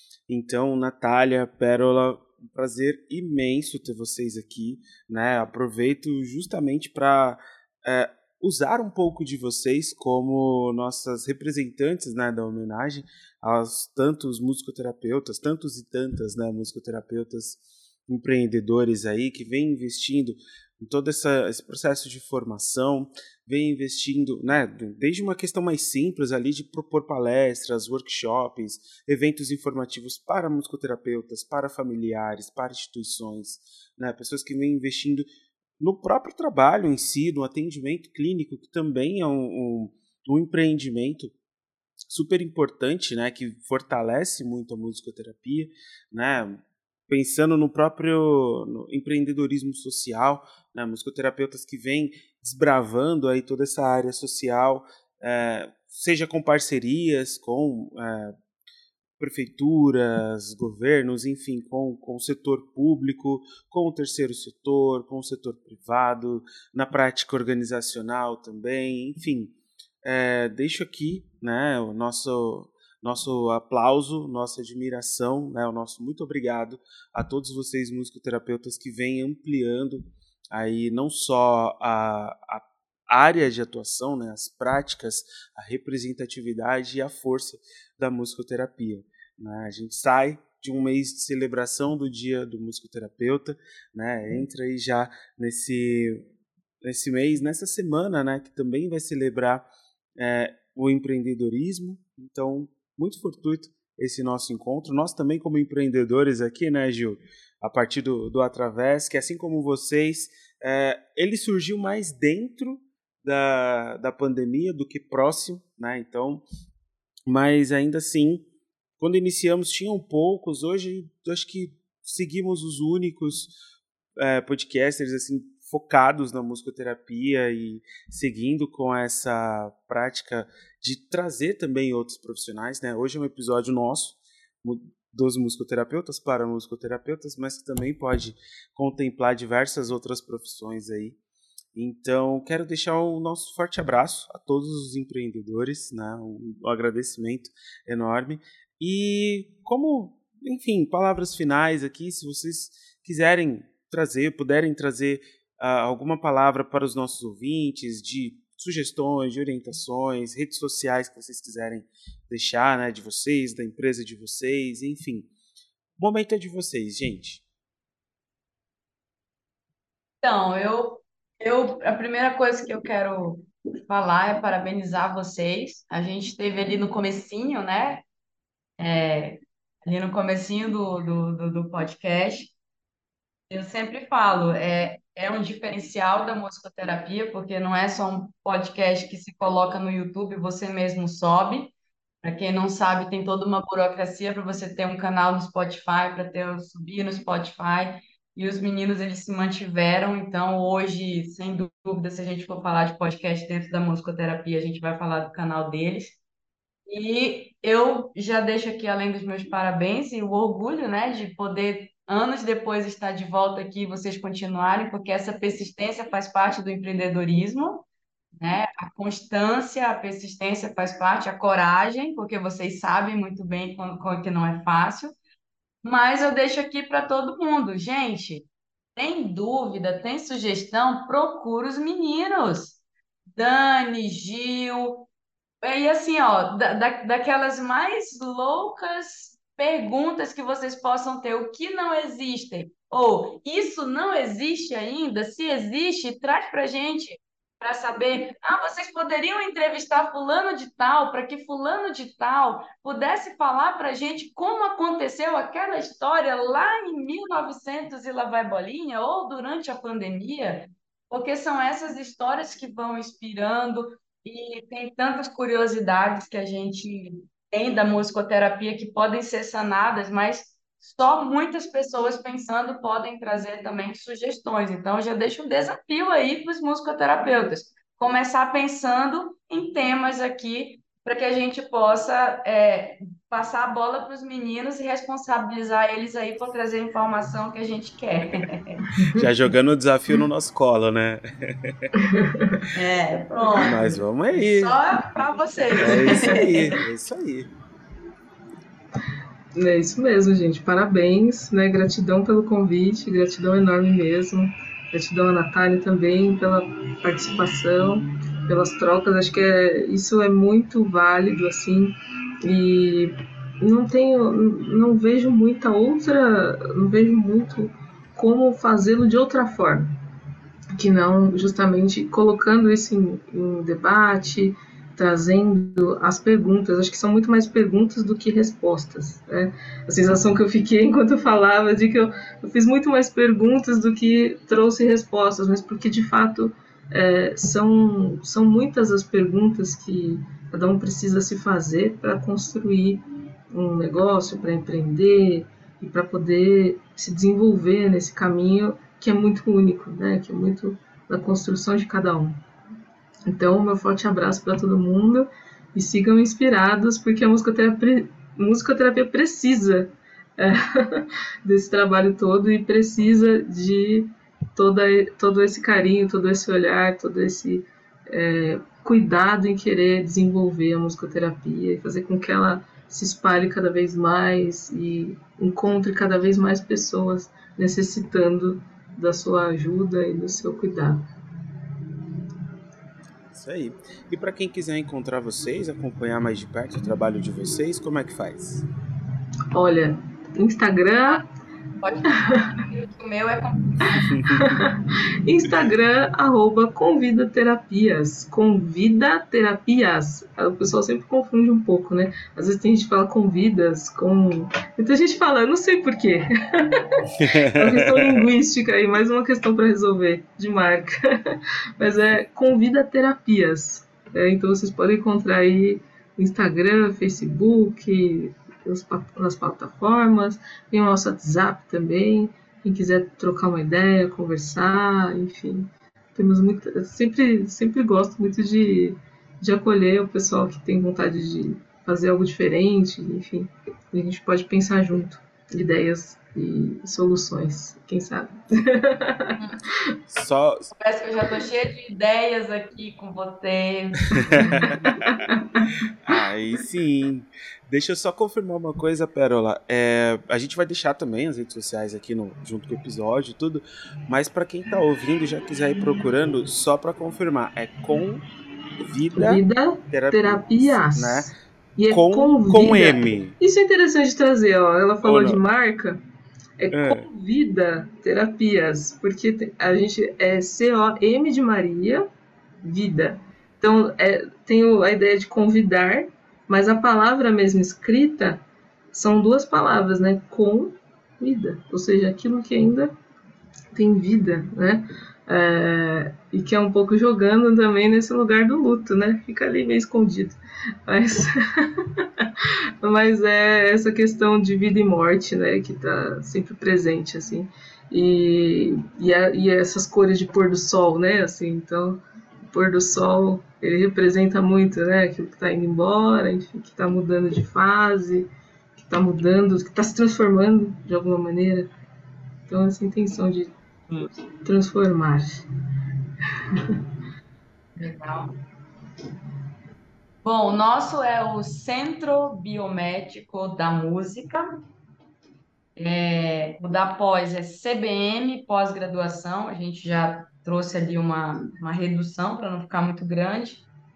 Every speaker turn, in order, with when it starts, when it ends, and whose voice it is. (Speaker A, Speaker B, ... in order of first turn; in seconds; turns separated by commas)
Speaker A: 0.3-35.2, Speaker A: 35.8-41.3, Speaker A: 42.1-58.4, Speaker A: 59.2-69.5, Speaker A: 70.0-96.3, Speaker A: 96.8-99.7, Speaker A: 100.2-116.4, Speaker A: 117.3-118.5, Speaker A: 119.0-123.5, Speaker A: 124.2-141.2, Speaker A: 141.8-165.3, Speaker A: 166.0-167.4, Speaker B: 170.2-178.0, Speaker B: 178.8-182.5, Speaker B: 183.5-206.2, Speaker B: 206.9-225.2, Speaker B: 225.8-232.8, Speaker B: 233.4-235.1, Speaker B: 235.6-288.8, Speaker C: 289.0-289.3, Speaker A: 289.1-291.7, Speaker C: 292.0-292.6, Speaker B: 292.7-293.8, Speaker C: 293.6-294.0, Speaker A: 293.6-294.8, Speaker B: 294.3-296.8, Speaker C: 295.8-296.4, Speaker A: 295.8-297.5, Speaker C: 299.6-311.9, Speaker C: 312.4-319.9, Speaker C: 320.8-352.4, Speaker C: 353.3-381.0, Speaker A: 383.3-388.6, Speaker C: 389.5-391.2, Speaker B: 391.8-394.1, Speaker A: 394.1-394.4, Speaker C: 394.2-439.7, Speaker A: 395.4-395.7, Speaker A: 407.2-408.3, Speaker A: 440.1-440.7, Speaker B: 440.7-445.0, Speaker A: 444.2-458.2, Speaker C: 444.4-445.7, Speaker A: 458.8-461.4, Speaker C: 459.2-466.0, Speaker A: 461.9-463.4, Speaker A: 465.0-465.4, Speaker C: 466.6-472.1, Speaker A: 466.7-467.1, Speaker C: 472.6-478.4, Speaker C: 478.9-482.9, Speaker C: 483.7-511.7, Speaker C: 512.5-513.5, Speaker C: 514.1-515.4, Speaker C: 516.5-516.8, Speaker B: 517.8-518.3, Speaker B: 520.2-524.5, Speaker B: 525.8-533.6